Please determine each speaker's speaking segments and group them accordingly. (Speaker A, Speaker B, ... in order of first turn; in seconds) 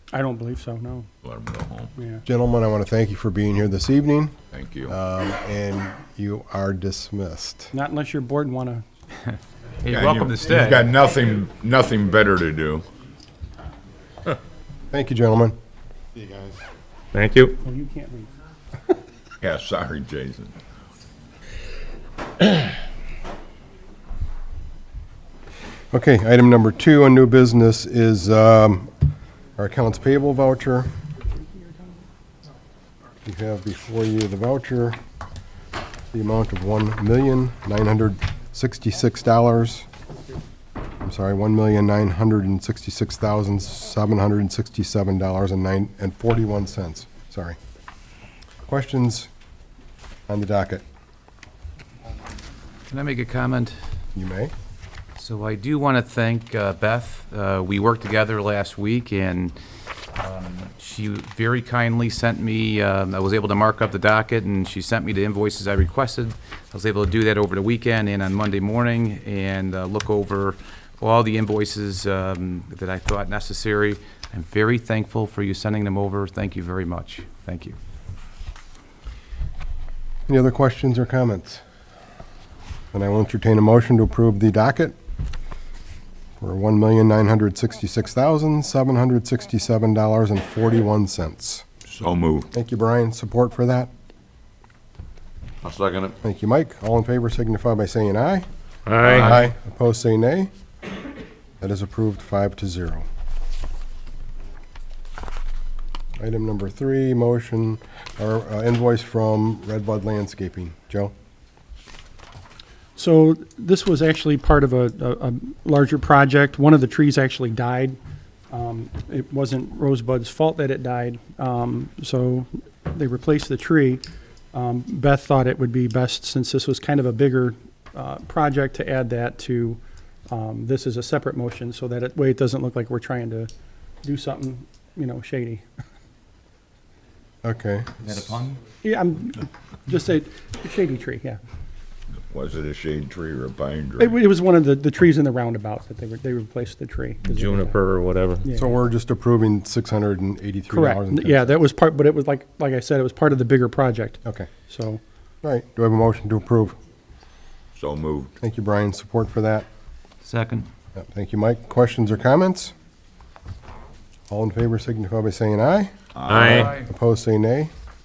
Speaker A: 0.1-1.1, 2.0-2.2, 7.7-8.9, 17.6-18.3, 113.0-118.0, 118.5-133.5, 134.0-135.7, 138.8-141.4, 144.0-147.9, 148.4-148.8, 150.7-155.0
Speaker B: 1.2-1.9, 4.5-4.9, 9.9-12.9, 19.4-20.6, 91.9-92.5, 95.6-96.2, 142.3-144.2, 157.8-158.3, 166.2-166.7
Speaker C: 2.2-4.4, 4.9-7.7, 14.9-15.6, 25.9-28.9, 29.6-30.9, 33.2-35.0, 36.1-39.9, 41.0-47.6, 48.7-49.3, 50.3-50.8, 54.1-54.5, 80.3-81.6, 82.9-85.0, 86.4-91.6, 92.5-93.9, 96.2-98.5, 99.0-100.5, 101.6-103.0, 106.2-111.1, 137.4-138.3, 148.5-151.6, 154.2-154.5, 155.4-156.8, 158.4-159.7, 161.0-162.7, 164.3-167.7
Speaker D: 9.8-10.9, 52.9-53.8, 55.2-59.5, 60.2-77.8, 160.2-160.7
Speaker E: 17.1-17.6, 98.9-99.4, 147.2-148.4, 166.3-166.7